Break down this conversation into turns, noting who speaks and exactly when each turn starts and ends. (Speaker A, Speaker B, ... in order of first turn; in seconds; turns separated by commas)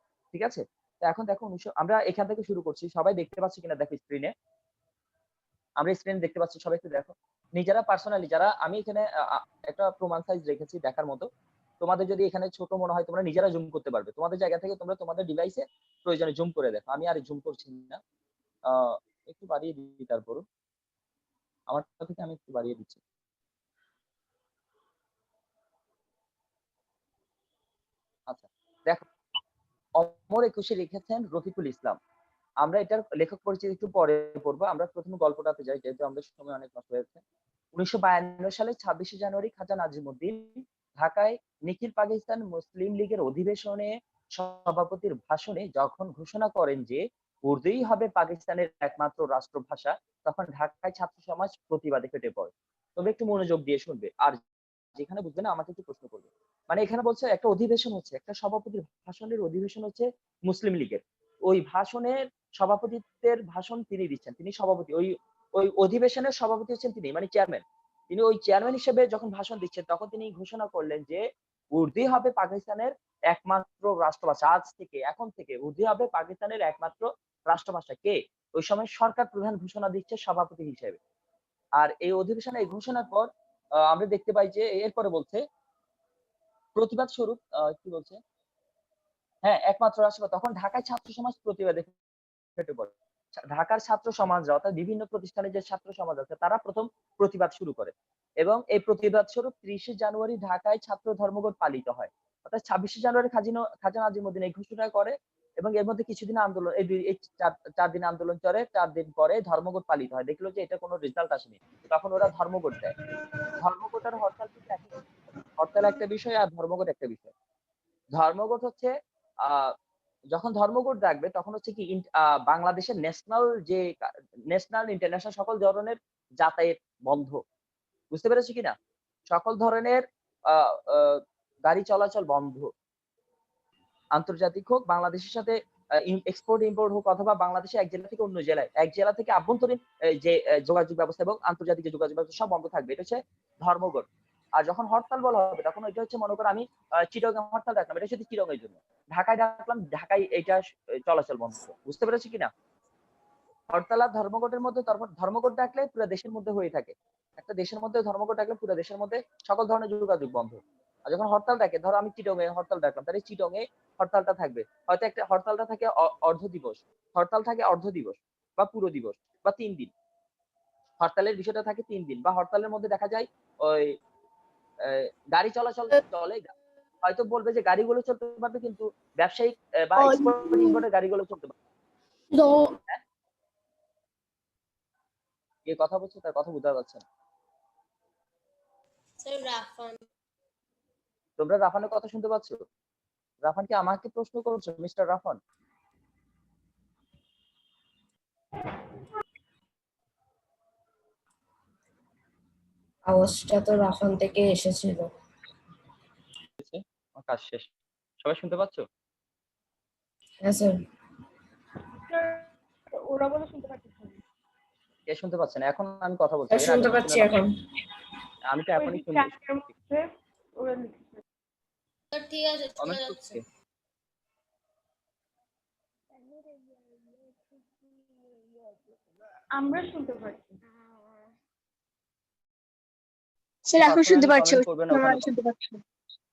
Speaker A: 0.3-4.3, Speaker A: 5.8-11.3, Speaker A: 11.8-18.0, Speaker A: 18.7-20.4, Speaker A: 21.7-23.0, Speaker A: 28.3-29.1, Speaker A: 29.9-32.0, Speaker A: 32.6-37.2, Speaker A: 37.7-54.4, Speaker A: 54.9-81.0, Speaker A: 81.8-83.3, Speaker A: 83.8-85.4, Speaker A: 86.8-88.2, Speaker A: 89.4-91.9, Speaker A: 92.6-112.9, Speaker A: 113.6-114.9, Speaker A: 115.6-117.3, Speaker A: 118.1-118.9, Speaker A: 119.4-119.7, Speaker A: 120.3-123.9, Speaker A: 124.5-127.4, Speaker A: 128.1-128.7, Speaker A: 129.3-132.7, Speaker A: 134.1-152.5, Speaker A: 153.7-169.9, Speaker A: 171.0-173.9, Speaker A: 174.8-176.5, Speaker A: 177.0-181.5, Speaker B: 180.0-180.8, Speaker B: 182.3-182.7, Speaker A: 185.7-187.0, Speaker C: 189.2-190.0, Speaker A: 191.4-192.6, Speaker A: 193.4-195.4, Speaker D: 203.1-205.1, Speaker A: 206.6-207.7, Speaker A: 208.2-208.8, Speaker D: 210.4-210.7, Speaker E: 212.1-214.2, Speaker A: 215.1-217.3, Speaker D: 216.5-217.5, Speaker A: 218.5-219.4, Speaker E: 218.8-220.1, Speaker E: 220.6-221.2, Speaker C: 222.1-223.4, Speaker A: 222.8-223.4, Speaker E: 229.5-230.6, Speaker B: 233.7-235.8, Speaker A: 233.8-235.3